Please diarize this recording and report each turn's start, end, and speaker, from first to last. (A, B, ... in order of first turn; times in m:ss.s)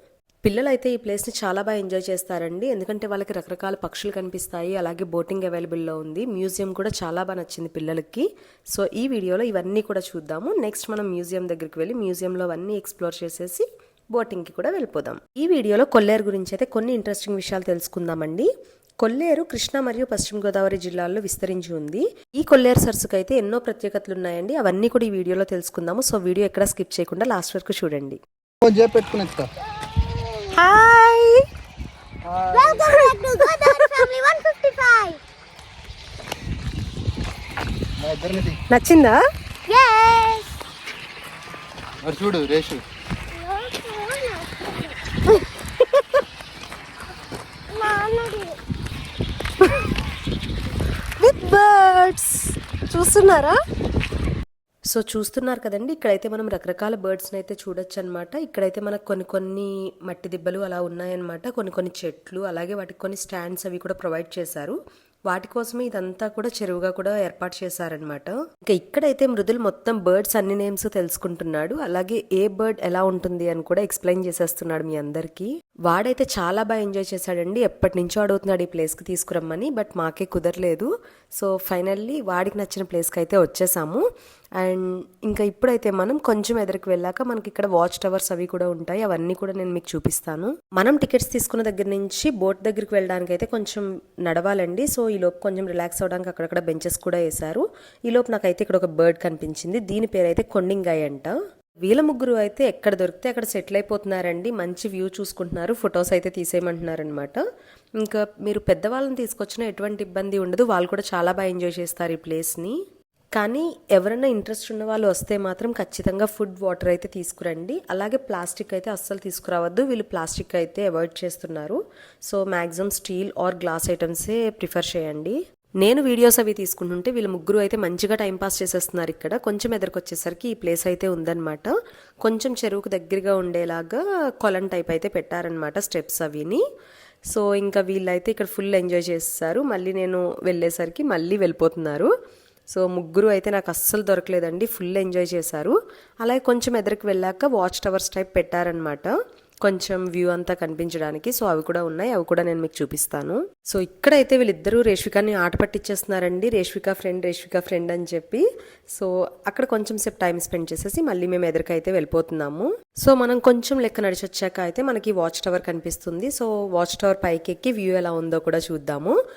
0:00.4-0:18.5 A
0:19.0-0:28.2 A
0:28.6-0:29.5 B
0:30.0-0:30.5 C
0:30.5-0:31.4 A
0:32.2-0:33.0 B
0:32.5-0:35.2 C
0:32.8-0:34.1 A
0:38.0-0:38.6 B
0:38.7-0:39.2 A
0:39.7-0:40.6 C
0:42.0-0:42.8 B
0:43.3-0:45.0 C
0:47.7-0:48.6 C
0:51.2-0:53.5 A
0:54.9-1:04.8 A
1:05.3-1:24.0 A
1:24.6-1:41.3 A
1:41.9-1:47.4 A
1:48.0-1:52.8 A
1:53.4-2:11.7 A
2:12.2-2:16.6 A
2:17.3-2:22.1 A
2:22.7-2:38.4 A
2:39.0-2:49.2 A